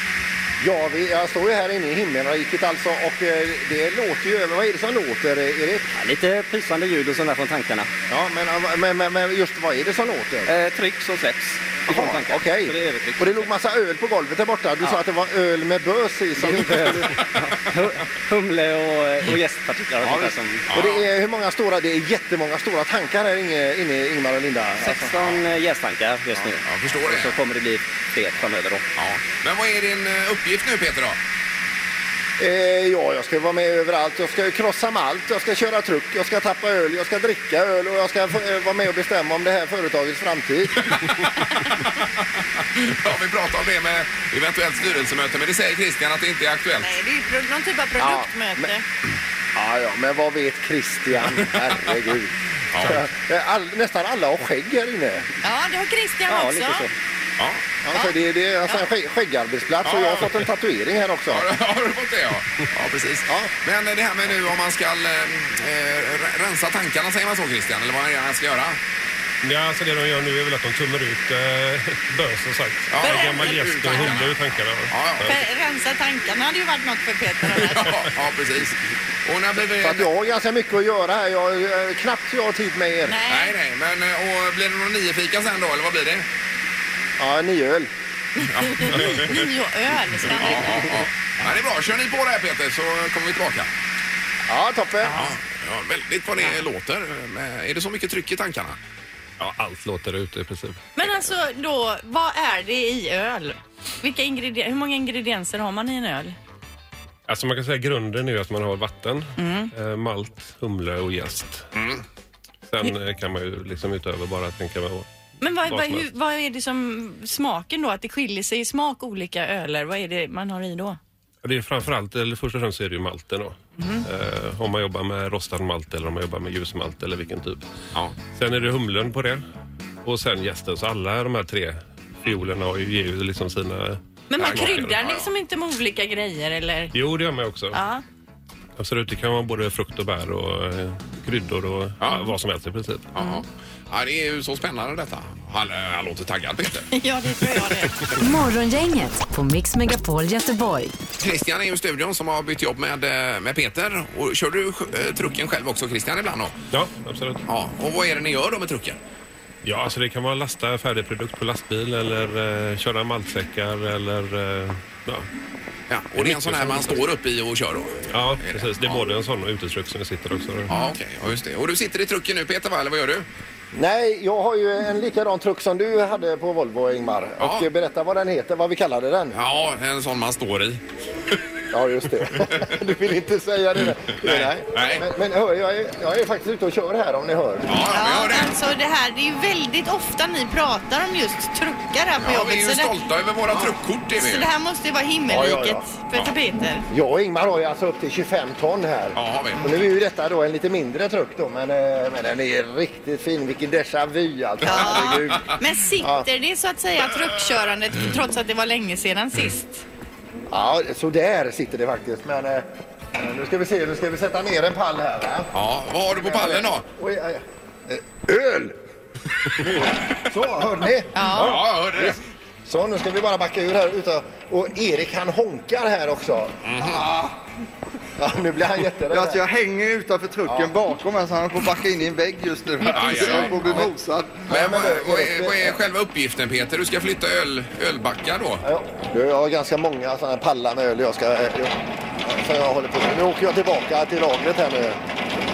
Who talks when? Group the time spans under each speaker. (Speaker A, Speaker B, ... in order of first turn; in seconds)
Speaker A: 0.6-5.9, 8.1-10.5, 11.9-17.3, 20.1-25.1, 32.4-40.9, 48.0-48.7, 49.5-52.3, 52.8-55.3, 57.8-61.5, 79.8-83.2, 87.2-87.9, 94.5-95.1, 173.7-179.4, 181.7-187.7, 195.3-195.9, 196.9-206.3, 210.5-215.5, 216.1-218.8, 219.6-227.0, 228.2-229.4, 230.5-230.7, 233.2-233.8, 234.5-235.8, 238.6-245.0
Speaker B: 6.0-7.9, 10.5-13.5, 16.4-20.7, 24.8-28.8, 56.3-56.9
Speaker C: 20.7-21.0, 25.1-25.4, 26.6-27.4, 29.0-31.2, 40.9-42.0, 42.8-46.9, 52.7-53.0, 59.8-60.3, 61.3-68.8, 72.9-75.3, 77.5-80.1, 83.3-86.3, 88.5-89.4, 90.3-93.7, 95.1-98.8, 111.8-112.0, 134.4-135.2, 142.0-142.3, 143.2-146.9, 151.2-156.6, 157.5-159.0, 165.9-169.1, 170.7-173.3, 177.4-177.7, 179.3-180.8, 182.3-182.7, 184.2-185.1, 187.7-188.5, 192.2-194.5, 199.2-199.6, 204.7-205.5, 215.5-216.8, 221.3-222.2, 226.6-227.3, 232.9-233.9, 234.5-238.7
Speaker D: 46.8-48.8, 55.4-56.9, 73.0-74.2, 75.2-78.0, 83.1-83.5, 88.4-90.8, 95.0-95.3, 101.0-106.4, 109.4-109.7, 115.4-121.0, 123.8-124.1, 134.3-136.9, 137.7-138.0, 146.9-148.1, 187.9-192.9, 194.2-196.9, 204.6-209.9, 221.2-221.6
Speaker E: 69.4-75.4, 99.4-100.8, 107.3-111.7, 112.7-115.1, 115.7-116.1, 121.4-127.7, 128.3-129.4, 130.0-135.0, 136.9-137.8, 138.8-143.1, 156.7-157.4, 159.6-165.3, 166.2-167.0, 168.1-170.7
Speaker F: 148.2-150.9
Speaker G: 229.1-234.5